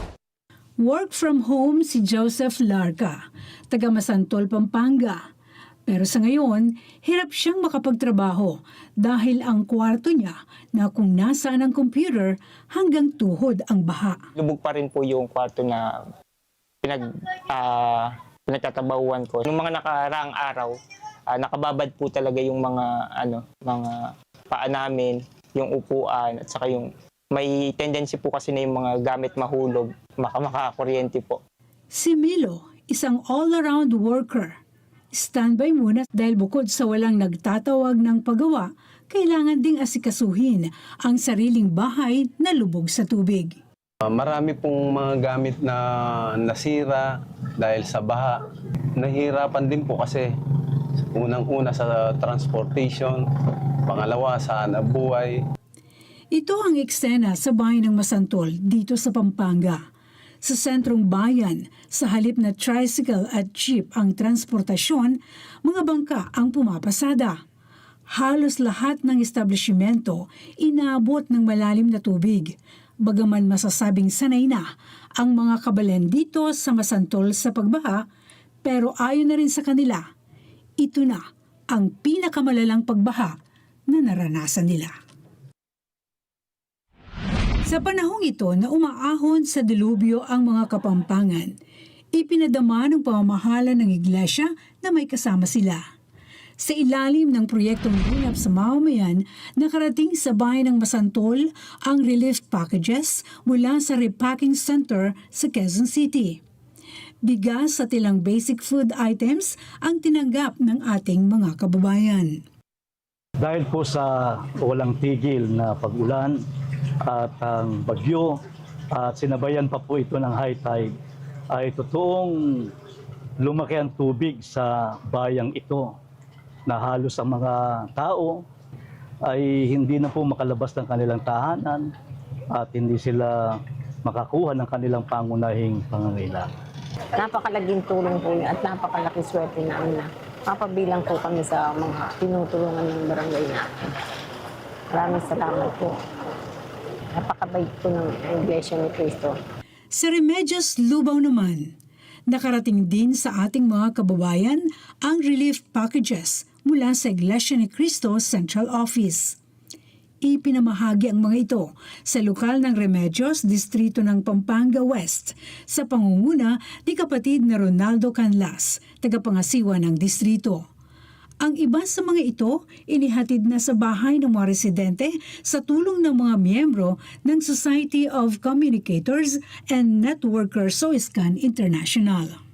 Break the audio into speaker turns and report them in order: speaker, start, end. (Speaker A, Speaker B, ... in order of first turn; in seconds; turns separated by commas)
Speaker A: 0.8-3.2, Speaker A: 3.7-5.2, Speaker A: 5.9-14.2, Speaker B: 14.4-15.9, Speaker B: 16.8-20.8, Speaker B: 21.3-24.0, Speaker B: 24.5-31.4, Speaker A: 31.9-34.6, Speaker A: 35.1-43.6, Speaker C: 44.0-48.4, Speaker C: 49.0-50.3, Speaker C: 51.1-53.2, Speaker C: 53.9-55.4, Speaker A: 56.3-59.8, Speaker A: 60.4-67.4, Speaker A: 68.1-78.0, Speaker A: 78.6-80.0, Speaker A: 80.8-83.3, Speaker A: 83.9-84.9, Speaker A: 87.7-91.6, Speaker A: 92.1-95.8, Speaker A: 96.6-106.4, Speaker A: 107.2-112.4, Speaker D: 113.4-116.4, Speaker D: 117.0-118.4, Speaker D: 118.9-120.9, Speaker D: 121.5-122.7, Speaker D: 123.4-125.9, Speaker D: 126.7-128.4, Speaker D: 129.3-131.9, Speaker D: 132.5-136.5, Speaker E: 137.2-143.7, Speaker E: 144.9-146.0, Speaker E: 147.2-149.3, Speaker A: 149.9-151.7, Speaker A: 152.3-159.4, Speaker A: 160.2-170.7, Speaker A: 171.4-182.4